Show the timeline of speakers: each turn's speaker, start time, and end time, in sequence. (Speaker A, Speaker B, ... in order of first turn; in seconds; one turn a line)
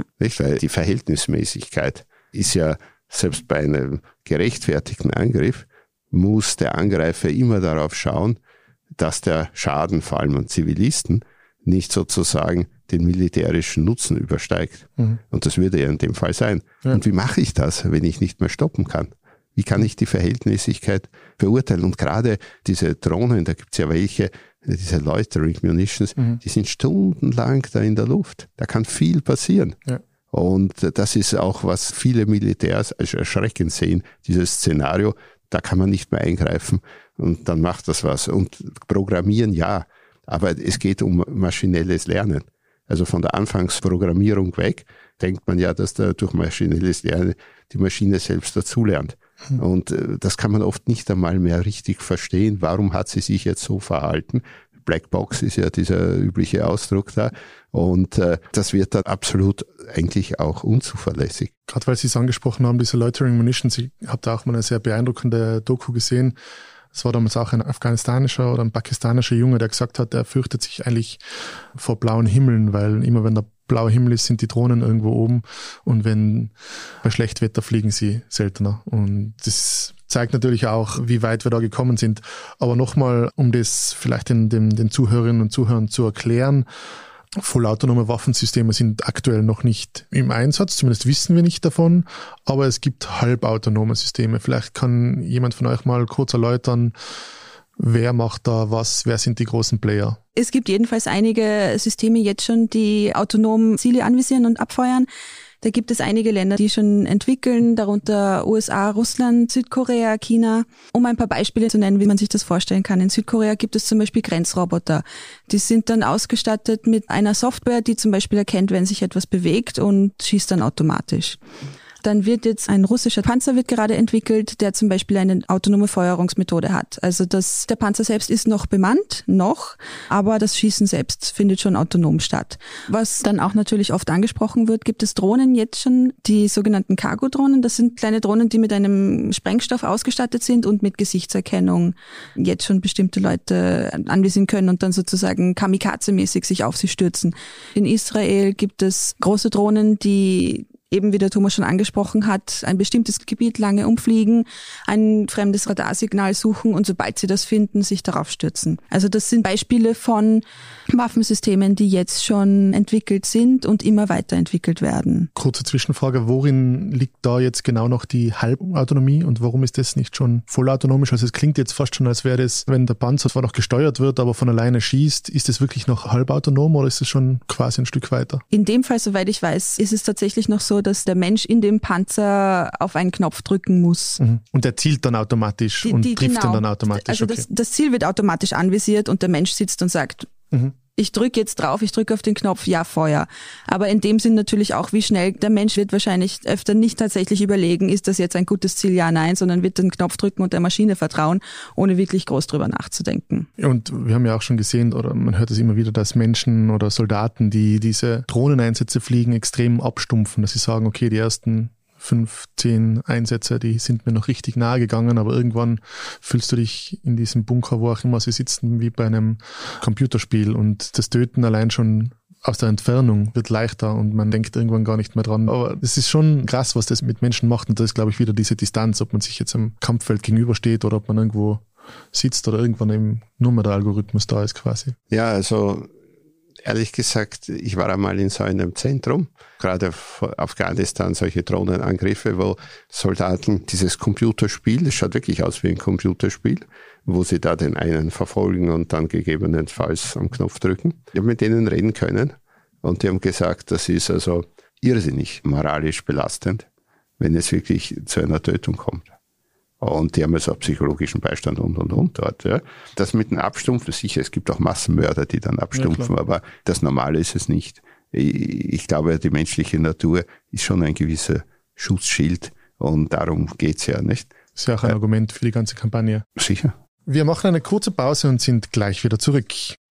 Speaker A: 0.2-8.4
Speaker A: 9.0-29.8
Speaker A: 30.3-61.5
Speaker B: 61.7-66.3
Speaker B: 66.9-71.2
Speaker B: 71.7-86.7
Speaker B: 87.4-96.9
Speaker B: 97.8-100.2
Speaker C: 100.3-105.1
Speaker C: 105.6-121.4
Speaker C: 122.0-165.3
Speaker B: 165.3-178.4
Speaker C: 178.5-184.2
Speaker B: 184.2-187.4
Speaker C: 185.8-190.3
Speaker C: 190.9-203.5
Speaker B: 203.6-234.9
Speaker A: 235.1-235.9
Speaker A: 236.6-256.6
Speaker A: 257.2-259.1
Speaker A: 259.8-274.3
Speaker B: 265.7-266.1
Speaker B: 274.6-276.2
Speaker A: 276.4-276.7
Speaker B: 277.1-279.8